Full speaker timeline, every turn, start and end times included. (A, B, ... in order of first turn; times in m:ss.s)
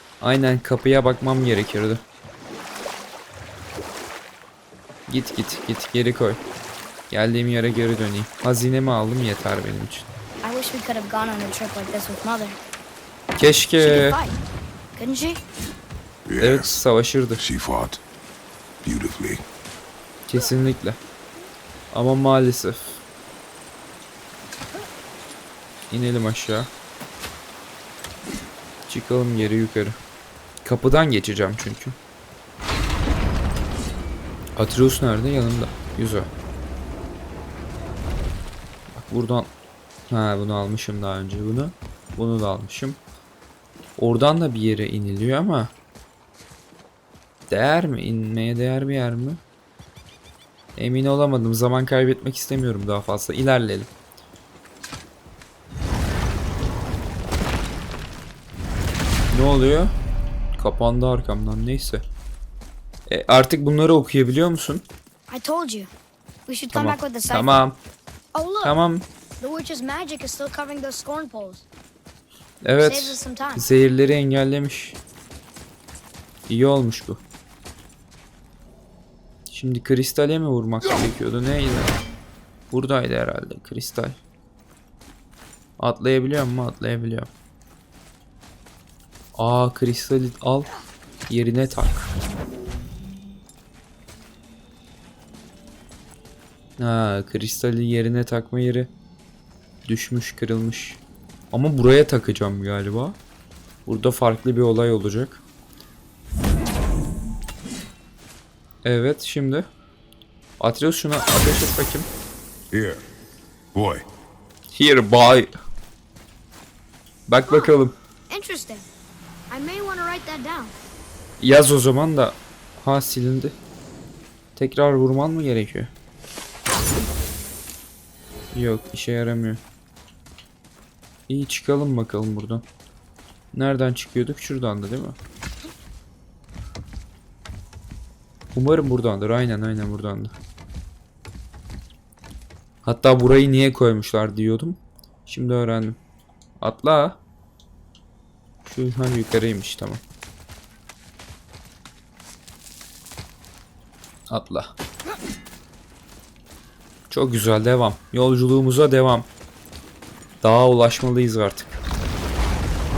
0:00.2-0:02.0 A
0:05.1-0:06.4 A
0:07.1-0:10.1 A
0:10.4-0:12.6 B
0:13.4-0:14.2 A
0:13.8-0:14.4 B
0:15.0-0:15.4 B
0:16.2-0:16.8 C
0:16.4-0:17.4 A
0:17.4-0:18.0 C
0:18.8-0:19.4 C
0:20.3-0:21.0 A
0:21.9-0:23.0 A
0:25.9-0:26.7 A
0:28.9-0:30.0 A
0:30.6-0:32.0 A
0:34.6-0:36.3 A
0:38.9-0:39.5 A
0:40.1-0:43.0 A
0:44.0-0:45.7 A
0:47.5-0:49.4 A
0:50.8-0:53.9 A
0:59.3-0:59.9 A
1:00.6-1:02.0 A
1:03.1-1:04.8 A
1:05.3-1:05.9 B
1:06.5-1:07.6 B
1:06.7-1:07.8 A
1:08.3-1:08.8 B
1:08.6-1:09.0 A
1:09.4-1:11.7 B
1:12.6-1:15.0 A
1:12.8-1:13.6 B
1:16.5-1:17.2 A
1:19.5-1:21.9 A
1:22.7-1:24.2 A
1:25.8-1:27.3 A
1:29.4-1:30.7 A
1:31.3-1:32.1 A
1:36.8-1:38.9 A
1:39.8-1:43.2 A
1:43.9-1:45.4 A
1:48.8-1:49.7 A
1:50.6-1:52.1 A
1:52.7-1:53.0 C
1:53.7-1:54.1 C
1:54.7-1:55.5 A
1:57.3-1:58.0 A
1:57.5-1:57.8 B
1:58.3-1:58.9 B
1:59.5-2:00.8 B
2:01.4-2:03.5 A
2:04.6-2:05.9 A
2:08.5-2:09.6 A
2:11.3-2:12.6 A
2:13.5-2:15.2 A
2:18.6-2:20.3 A
2:22.8-2:26.0 A
2:26.6-2:27.2 A
2:28.6-2:30.0 A
2:34.3-2:34.7 A
2:37.1-2:39.3 A
2:40.4-2:41.8 A